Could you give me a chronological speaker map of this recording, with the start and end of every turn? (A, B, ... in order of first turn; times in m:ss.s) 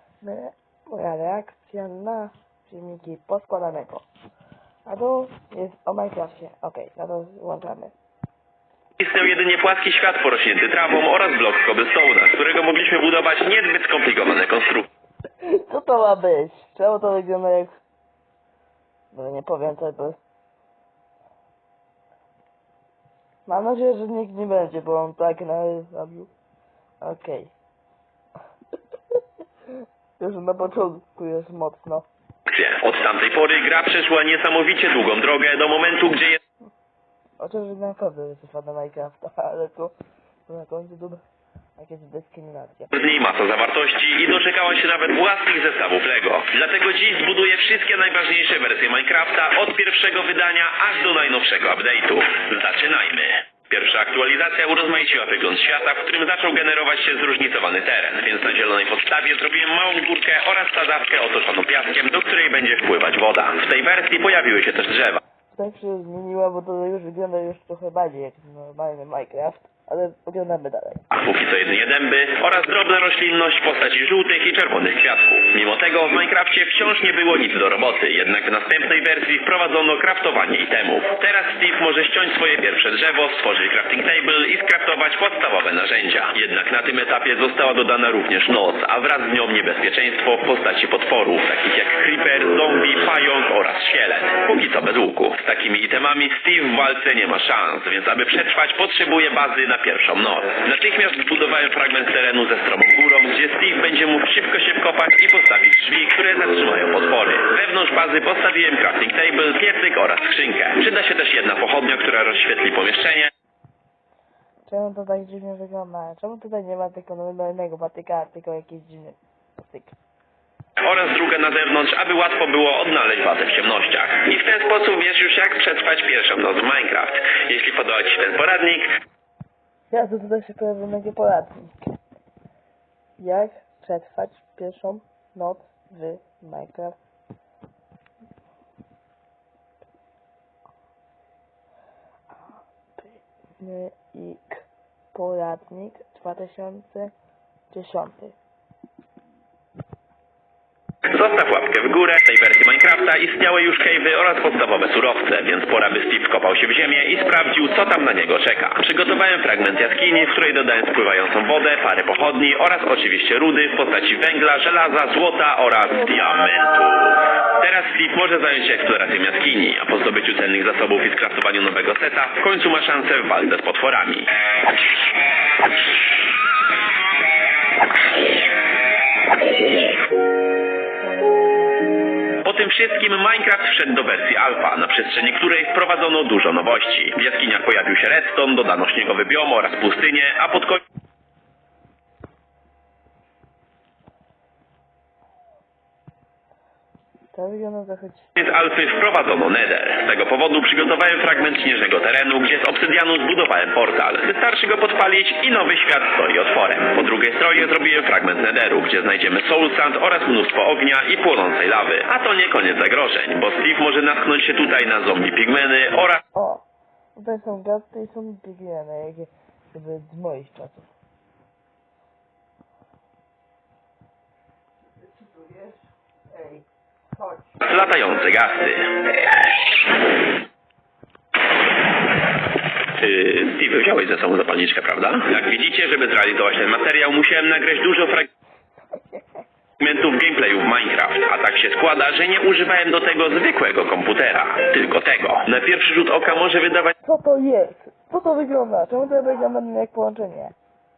0:00.2-0:04.0 A
0:04.9-0:07.9 A
0:09.0-0:14.9 B
0:15.6-0:17.7 A
0:19.1-0:20.2 A
0:23.5-0:26.3 A
0:27.0-0:27.5 A
0:30.2-0:32.1 A
0:32.5-0:36.4 B
0:37.4-0:39.9 A
0:40.5-0:41.2 A
0:41.8-0:42.9 A
0:42.9-1:05.2 B
1:05.5-1:11.0 A
1:11.1-1:53.3 B
1:54.7-2:00.0 A
2:00.8-2:08.9 B
2:09.9-2:11.8 A
2:13.2-2:17.0 A
2:23.0-2:24.5 A
2:25.1-2:27.1 A
2:27.7-2:28.4 A
2:31.1-2:54.3 B
3:02.4-3:10.8 B
3:17.3-3:18.3 A
3:18.4-3:36.2 B
3:36.3-3:36.6 A
3:37.2-3:40.9 A
3:45.2-3:45.7 A
3:46.3-3:46.6 A
3:47.6-3:49.1 B
3:53.0-3:58.3 B
3:59.8-4:06.9 B
4:07.0-4:10.6 A